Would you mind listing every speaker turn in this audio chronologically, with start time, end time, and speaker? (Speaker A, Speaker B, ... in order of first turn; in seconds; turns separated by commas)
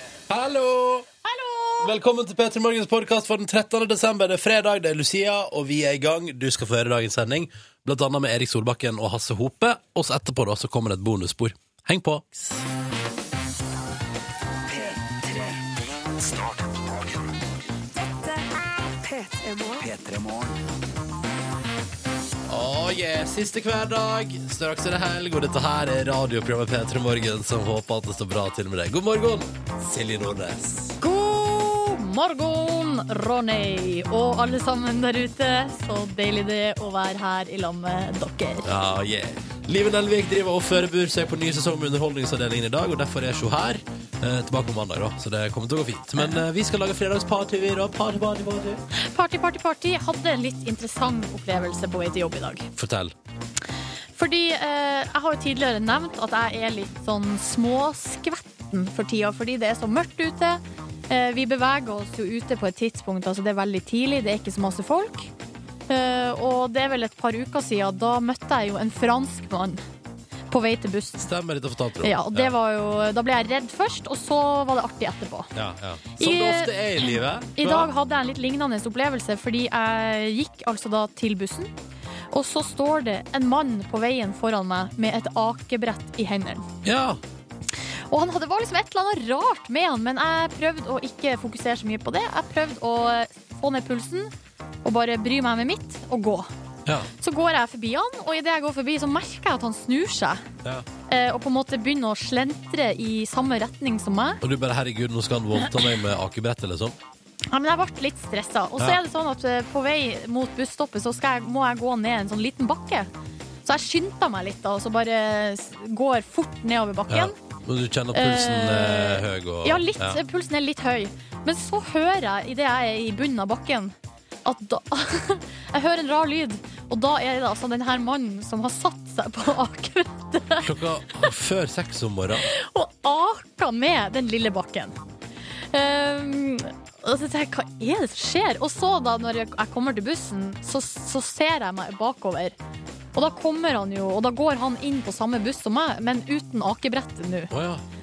Speaker A: 0.3-1.1, Speaker A: 1.8-12.6, Speaker B: 14.7-15.6, Speaker B: 16.2-17.1, Speaker B: 18.1-18.4, Speaker B: 19.0-20.6, Speaker A: 22.5-31.0, Speaker C: 31.0-38.7, Speaker A: 38.6-48.8, Speaker C: 49.1-52.7, Speaker A: 52.8-53.1, Speaker C: 54.2-65.3, Speaker C: 65.9-69.8, Speaker C: 70.5-71.3, Speaker A: 71.2-72.6, Speaker C: 72.0-75.5, Speaker A: 75.5-77.9, Speaker C: 76.2-81.7, Speaker C: 82.3-86.7, Speaker A: 86.8-87.2, Speaker C: 88.1-94.3, Speaker C: 94.8-96.5, Speaker C: 97.2-100.4, Speaker C: 101.1-104.4, Speaker A: 104.4-107.0, Speaker C: 107.5-113.1, Speaker C: 113.6-117.4, Speaker A: 117.1-120.2, Speaker C: 118.1-123.9, Speaker C: 124.4-130.7, Speaker A: 130.6-132.5, Speaker C: 132.6-135.0, Speaker C: 135.7-142.5, Speaker C: 143.2-147.5, Speaker A: 147.5-147.8